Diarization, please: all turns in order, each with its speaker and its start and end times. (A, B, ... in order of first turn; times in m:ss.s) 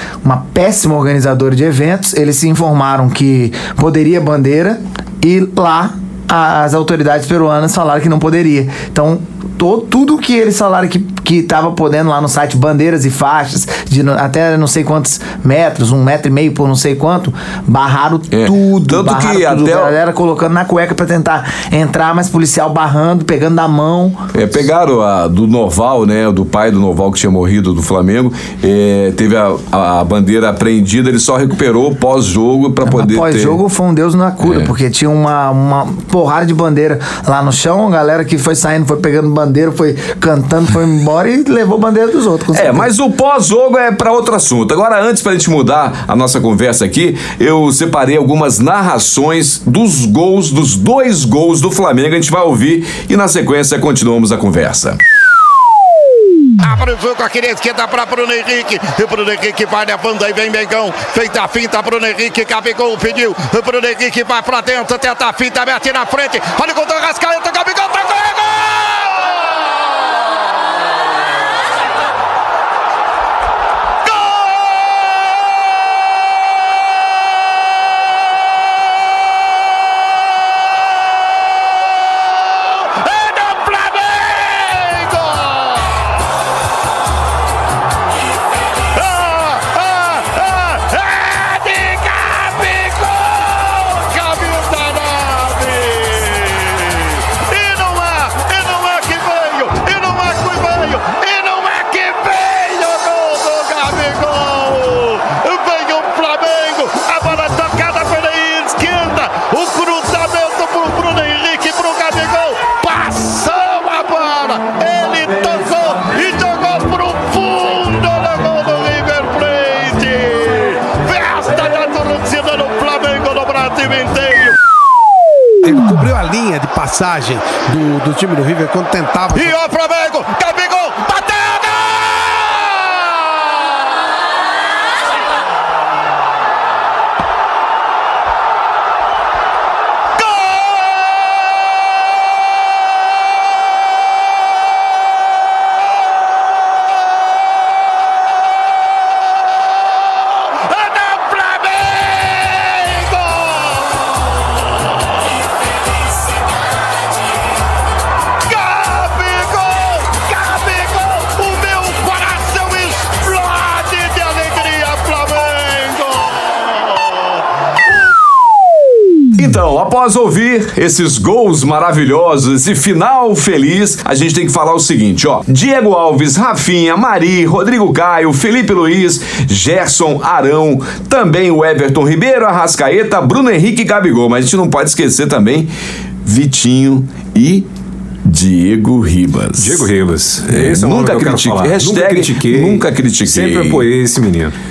0:00.2-0:24.2 A
0:18.3-0:20.0 B
0:24.3-0:33.6 B
0:32.8-0:42.9 A
0:34.4-0:34.7 B
0:42.5-0:55.0 B
0:56.6-1:10.2 C
1:14.1-1:14.6 C
1:22.4-1:26.2 C
1:28.9-2:04.6 C
2:05.6-2:09.6 D
2:09.3-2:13.5 C
2:20.2-2:20.6 C
2:30.0-2:35.1 C
2:38.4-2:47.4 C
2:49.4-3:05.7 B
3:06.2-3:07.7 B
3:08.2-3:09.8 B
3:09.6-3:14.5 E
3:10.4-3:13.8 B